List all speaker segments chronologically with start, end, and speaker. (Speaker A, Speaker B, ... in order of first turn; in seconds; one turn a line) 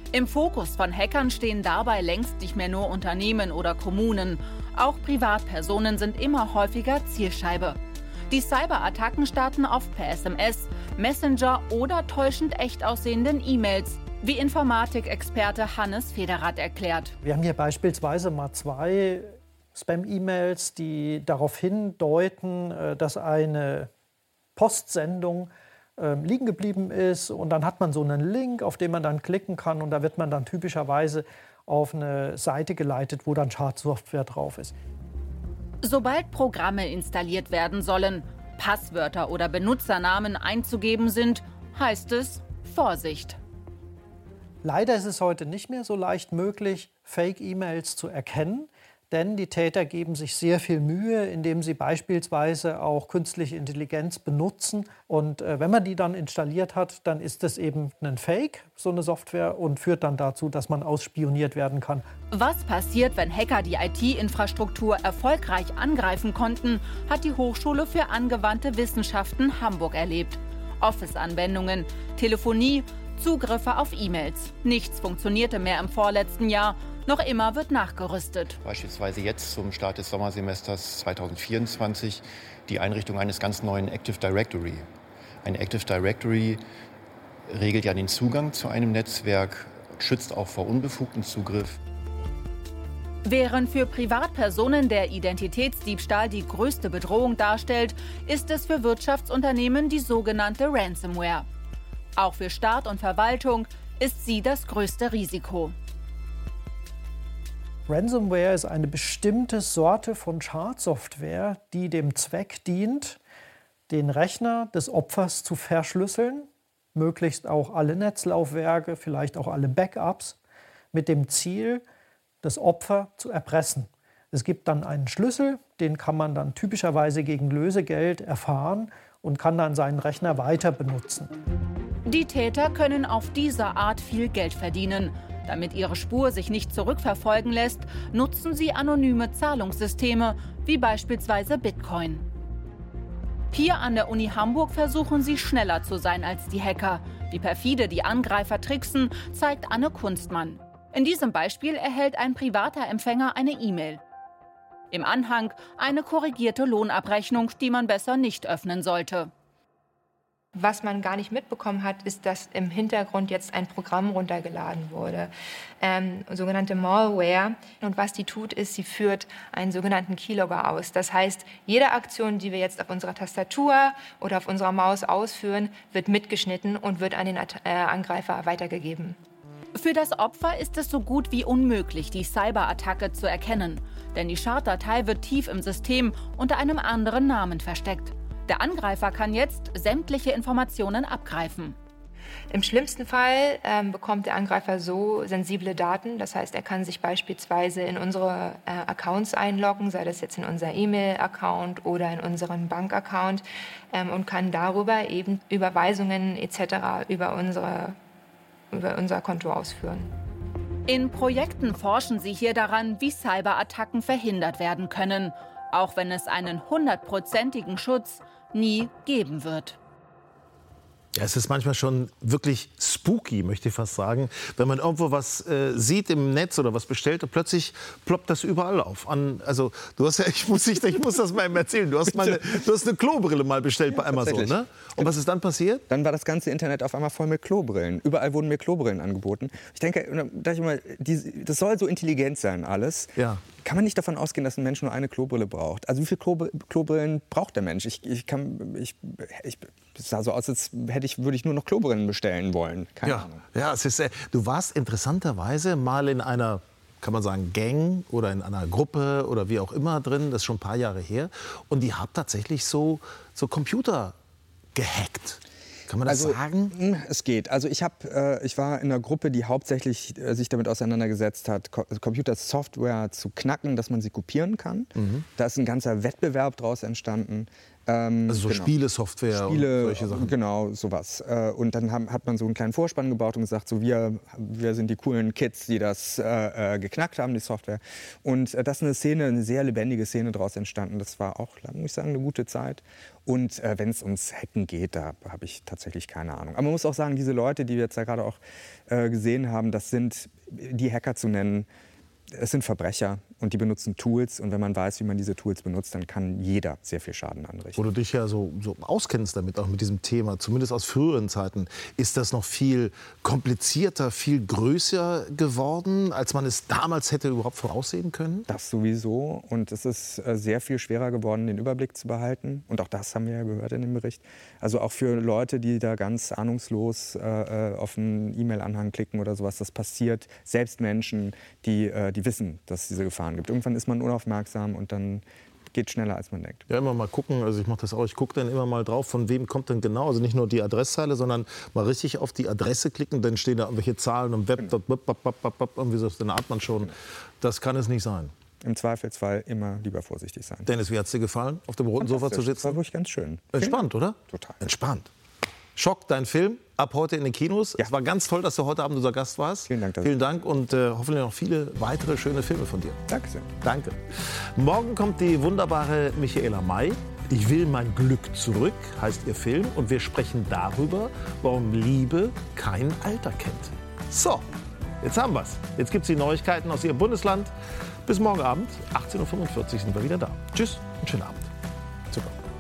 Speaker A: 0.1-7.8
Speaker A: 8.3-17.1
Speaker B: 17.2-23.9
Speaker B: 24.6-34.7
Speaker A: 35.8-43.4
Speaker B: 44.6-62.1
Speaker A: 62.3-78.6
Speaker C: 78.6-84.9
Speaker C: 85.4-86.6
Speaker C: 87.5-91.8
Speaker A: 93.2-101.4
Speaker A: 102.2-105.7
Speaker B: 107.9-113.2
Speaker B: 113.9-120.4
Speaker B: 120.9-121.8
Speaker B: 122.4-131.3
Speaker A: 132.1-142.2
Speaker A: 143.5-154.0
Speaker A: 154.9-159.3
Speaker D: 160.5-179.2
Speaker A: 179.7-191.8
Speaker D: 192.5-208.0
Speaker D: 208.7-210.1
Speaker A: 210.9-219.8
Speaker E: 221.1-235.8
Speaker F: 233.9-235.1
Speaker F: 235.9-253.4
Speaker E: 243.2-243.4
Speaker E: 253.0-264.1
Speaker E: 264.7-266.7
Speaker F: 266.1-278.7
Speaker E: 274.9-275.2
Speaker E: 278.3-280.3
Speaker F: 279.3-301.7
Speaker F: 302.3-307.8
Speaker E: 307.8-318.4
Speaker F: 318.5-336.6
Speaker E: 336.7-348.3
Speaker F: 348.6-350.7
Speaker E: 350.6-352.8
Speaker F: 352.0-354.6
Speaker E: 353.5-355.1
Speaker E: 355.8-363.0
Speaker F: 359.7-360.1
Speaker F: 363.1-363.5
Speaker E: 363.6-374.4
Speaker E: 375.0-377.5
Speaker E: 378.1-381.5